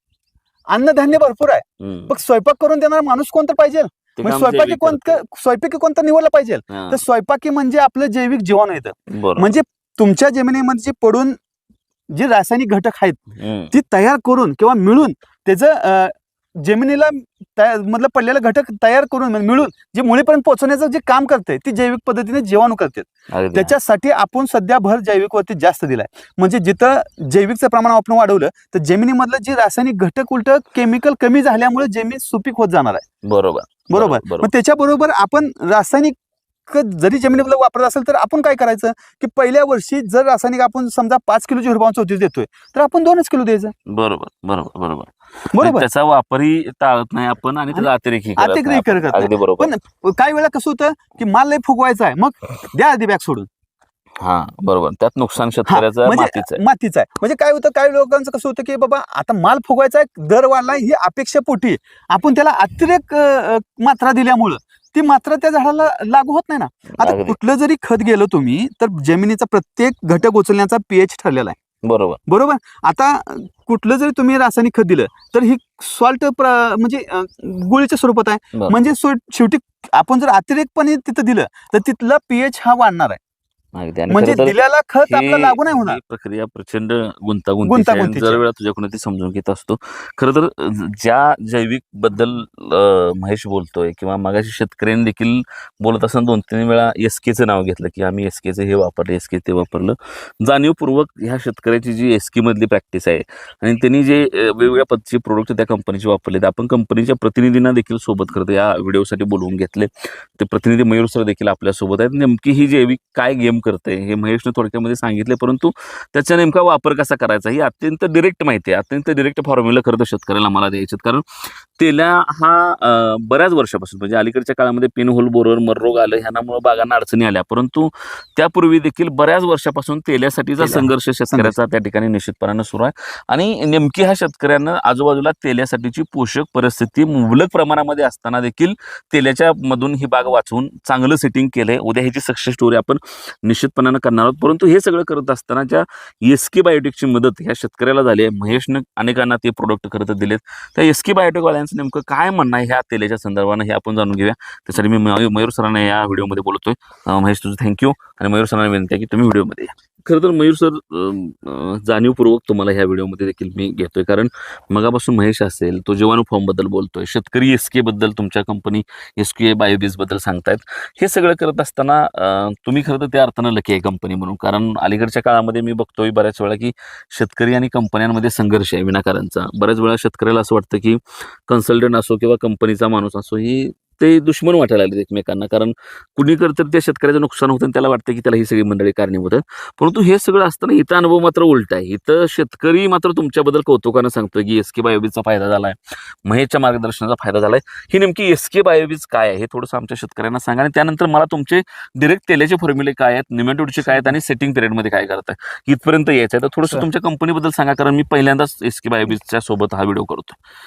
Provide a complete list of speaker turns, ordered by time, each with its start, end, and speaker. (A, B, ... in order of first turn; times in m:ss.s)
0:00.7-0:11.4 A
0:01.8-0:02.1 B
0:04.2-0:05.2 B
0:06.7-0:07.0 B
0:09.1-0:09.6 B
0:12.1-0:13.2 A
0:13.4-0:13.7 B
0:13.7-0:33.0 A
0:23.3-0:23.8 B
0:33.2-0:34.5 B
0:33.9-0:36.2 A
0:36.7-0:43.7 A
0:43.9-0:49.7 B
0:45.5-0:45.8 A
0:47.7-0:53.5 A
0:54.2-0:56.6 B
0:55.7-1:11.6 A
1:06.9-1:07.4 B
1:11.8-1:12.2 B
1:12.3-1:23.2 A
1:23.8-1:24.6 B
1:24.1-1:26.0 A
1:25.1-3:30.4 B
1:27.6-1:28.4 A
2:10.6-2:11.5 A